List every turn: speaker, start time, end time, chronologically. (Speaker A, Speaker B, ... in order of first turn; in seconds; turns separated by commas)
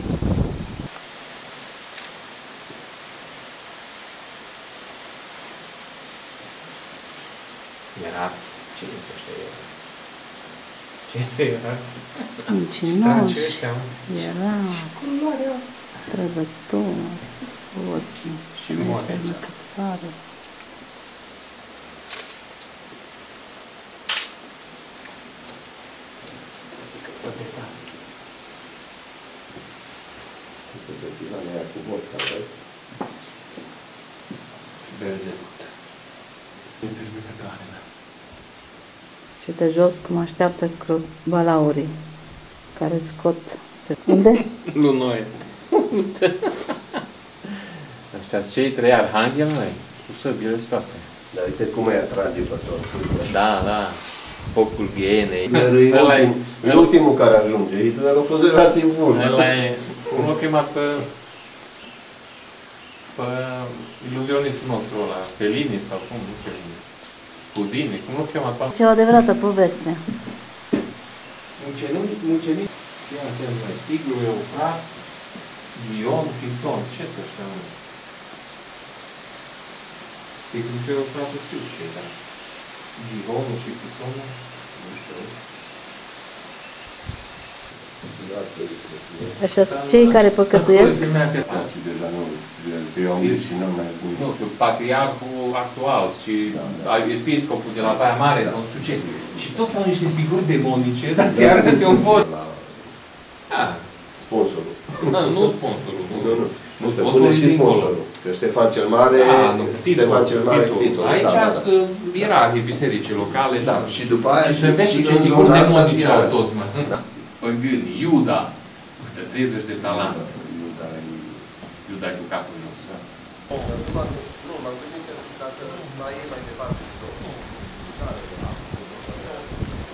Speaker A: 7.9-9.7, Speaker A: 11.1-12.2, Speaker B: 12.5-14.9, Speaker A: 12.8-15.6, Speaker B: 16.1-20.1, Speaker A: 18.5-19.4, Speaker A: 26.9-27.8, Speaker C: 30.7-32.6, Speaker A: 34.8-35.7, Speaker A: 36.8-37.8, Speaker B: 39.4-41.9, Speaker B: 42.7-44.4, Speaker A: 44.7-47.5, Speaker A: 48.1-51.1, Speaker C: 51.3-53.3, Speaker A: 53.2-56.9, Speaker C: 55.5-60.2, Speaker A: 59.1-61.1, Speaker A: 63.1-66.8, Speaker A: 67.5-68.7, Speaker B: 68.7-70.0, Speaker A: 71.6-74.9, Speaker A: 75.7-77.7, Speaker A: 80.5-82.1, Speaker A: 82.9-84.4, Speaker C: 84.7-85.3, Speaker C: 88.0-89.4, Speaker B: 89.4-91.0, Speaker A: 89.5-91.7, Speaker C: 91.4-94.2, Speaker A: 93.2-93.5, Speaker A: 94.1-102.2, Speaker C: 96.5-96.9, Speaker C: 97.8-99.5, Speaker C: 101.2-102.9, Speaker A: 103.5-103.9, Speaker C: 104.1-112.4, Speaker A: 105.0-108.0, Speaker A: 109.1-120.3, Speaker C: 113.3-117.0, Speaker C: 119.8-121.5, Speaker A: 121.8-123.7, Speaker C: 123.5-129.7, Speaker A: 125.7-126.0, Speaker A: 127.2-127.7